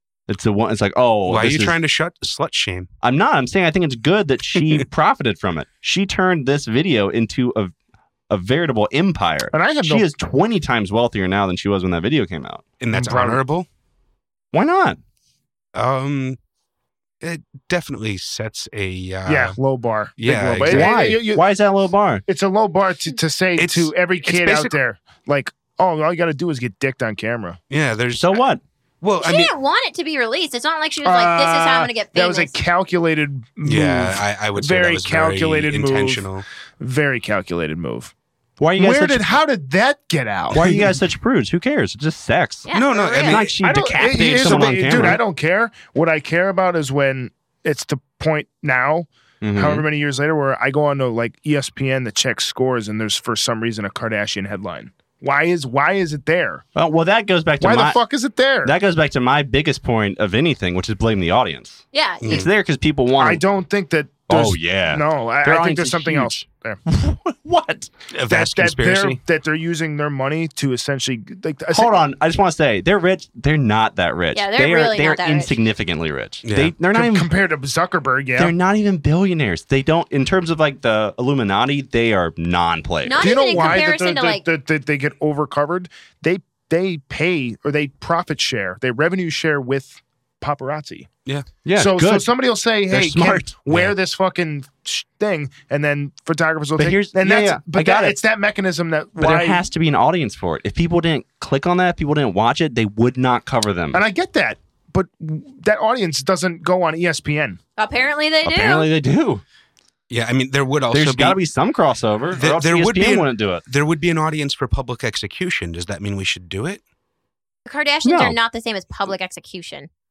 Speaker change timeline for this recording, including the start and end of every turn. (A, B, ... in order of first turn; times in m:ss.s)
0:00.3-0:01.8 A
0:01.2-0:02.9 B
0:03.0-0:07.7 A
0:08.3-0:12.6 A
0:09.5-0:10.0 C
0:12.8-0:13.7 B
0:12.9-0:13.4 C
0:14.5-0:15.0 A
0:15.7-0:16.4 B
0:17.2-0:19.6 B
0:19.2-0:21.4 C
0:20.2-0:21.0 B
0:20.6-0:22.2 A
0:22.3-0:27.6 C
0:23.6-0:24.8 B
0:27.7-0:28.4 B
0:28.1-0:28.6 A
0:29.0-0:29.5 B
0:29.2-0:32.6 D
0:31.0-0:38.1 C
0:33.6-0:36.4 B
0:38.6-0:39.3 A
0:38.8-0:40.9 C
0:40.5-0:42.7 A
0:42.7-0:43.4 D
0:42.7-0:43.6 B
0:43.2-0:45.2 A
0:43.6-0:56.6 C
0:49.4-0:49.8 A
0:56.7-0:58.0 A
0:57.6-0:58.7 C
0:58.6-1:03.4 A
1:01.9-1:02.4 D
1:02.2-1:02.5 B
1:03.2-1:06.8 C
1:04.3-1:07.9 A
1:08.1-1:09.2 B
1:08.3-1:12.1 C
1:11.7-1:17.3 A
1:14.3-1:15.6 D
1:16.4-1:16.7 B
1:16.9-1:18.5 C
1:18.3-1:23.7 A
1:23.0-1:24.4 D
1:23.2-1:31.1 C
1:31.6-1:32.3 A
1:31.7-1:39.6 C
1:32.9-1:33.6 A
1:33.7-1:33.9 B
1:36.8-1:38.2 A
1:39.2-1:44.0 A
1:43.9-1:47.6 C
1:47.8-1:48.9 D
1:48.4-1:49.4 A
1:50.1-1:51.4 B
1:50.9-1:53.6 A
1:52.3-1:56.8 B
1:57.6-1:59.9 D
1:58.0-1:58.4 A